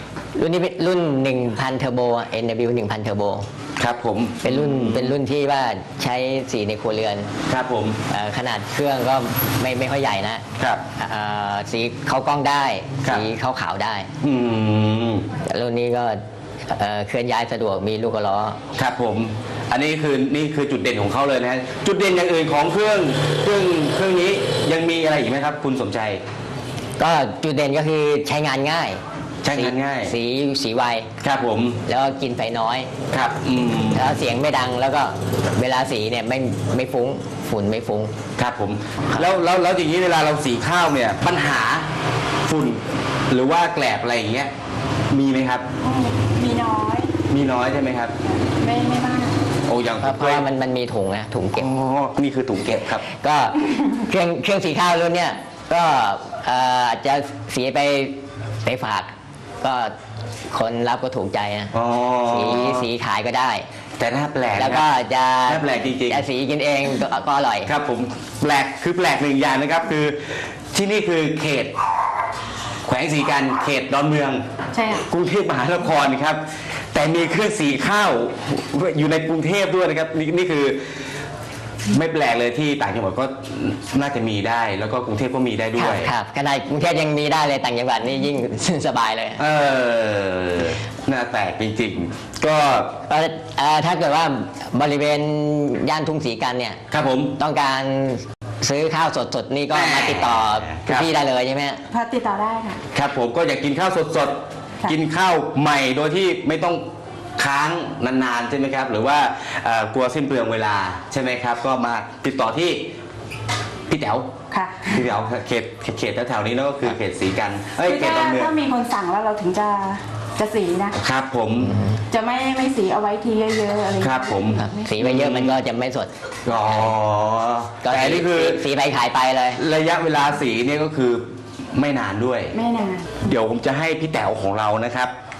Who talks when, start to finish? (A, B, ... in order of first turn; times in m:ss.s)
0:00.4-0:03.5 A
0:03.8-0:05.1 B
0:04.4-0:07.3 A
0:07.5-0:08.0 B
0:08.1-0:14.1 A
0:14.2-0:15.2 B
0:15.4-0:18.6 A
0:18.8-0:26.2 B
0:27.0-0:31.1 A
0:29.4-0:30.1 B
0:31.2-0:31.8 B
0:31.8-0:32.9 A
0:33.1-0:34.1 B
0:33.9-0:38.1 A
0:38.4-0:41.9 B
0:42.4-0:44.5 B
0:45.1-0:45.7 B
0:45.8-0:47.2 C
0:47.3-0:48.2 B
0:48.6-0:49.4 C
0:49.6-0:50.4 B
0:50.0-0:51.7 A
0:51.5-0:53.0 B
0:53.0-0:59.9 A
1:00.5-1:01.7 A
1:01.7-1:02.9 B
1:02.2-1:03.6 A
1:04.0-1:04.8 B
1:04.5-1:07.7 A
1:05.5-1:06.2 B
1:07.6-1:11.7 B
1:12.9-1:14.4 B
1:14.7-1:15.0 C
1:15.1-1:16.4 B
1:16.9-1:20.9 B
1:21.9-1:26.1 B
1:25.8-1:29.4 A
1:29.4-1:32.9 B
1:33.1-1:36.8 A
1:36.9-1:37.3 B
1:37.4-1:41.8 A
1:39.7-1:41.1 B
1:41.9-1:42.8 C
1:42.9-1:46.8 B
1:47.4-1:52.9 B
1:53.9-1:54.3 B
1:54.5-1:55.1 C
1:54.9-1:58.5 B
1:57.7-2:01.0 C
2:01.0-2:01.7 B
2:01.6-2:02.0 A
2:02.1-2:04.9 C
2:04.0-2:05.6 B
2:04.6-2:06.9 A
2:06.4-2:08.6 B
2:07.8-2:09.6 A
2:09.6-2:12.5 B
2:12.5-2:13.2 C
2:13.2-2:15.1 B